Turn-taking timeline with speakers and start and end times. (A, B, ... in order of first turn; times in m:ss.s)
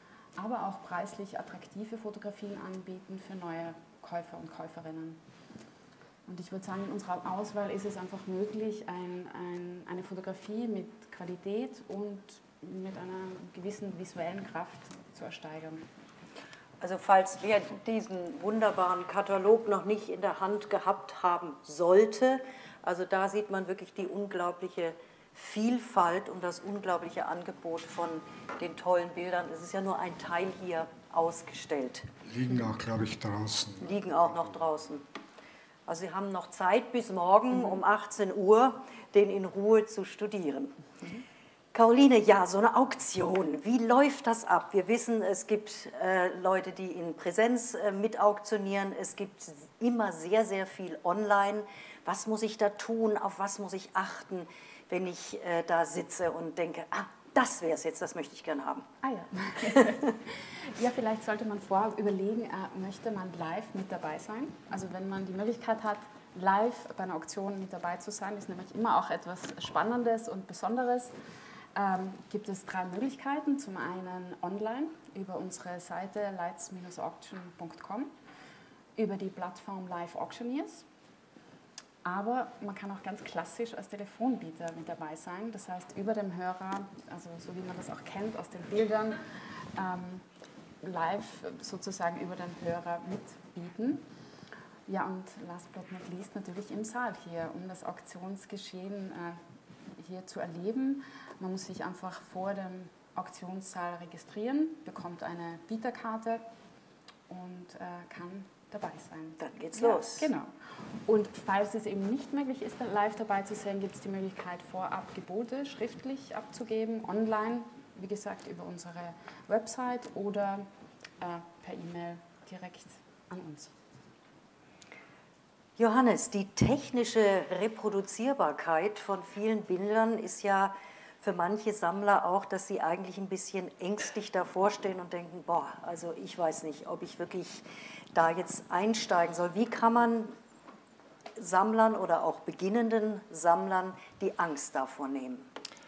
0:00.4-0:05.2 A
0:06.2-0:15.8 A
0:16.8-0:32.1 B
0:32.2-0:34.6 C
0:33.8-0:35.0 B
0:35.9-0:40.8 B
0:41.7-0:58.9 B
0:59.0-1:11.1 A
1:11.7-1:18.1 A
1:19.0-1:20.8 A
1:22.0-1:29.2 A
1:29.7-1:30.3 A
1:30.8-1:34.0 A
1:34.9-1:39.4 A
1:40.0-1:46.4 A
1:47.3-1:50.5 A
1:49.4-1:50.3 B
1:51.0-2:00.7 A
2:01.2-2:03.7 A
2:05.8-2:20.3 B
2:21.4-2:25.5 B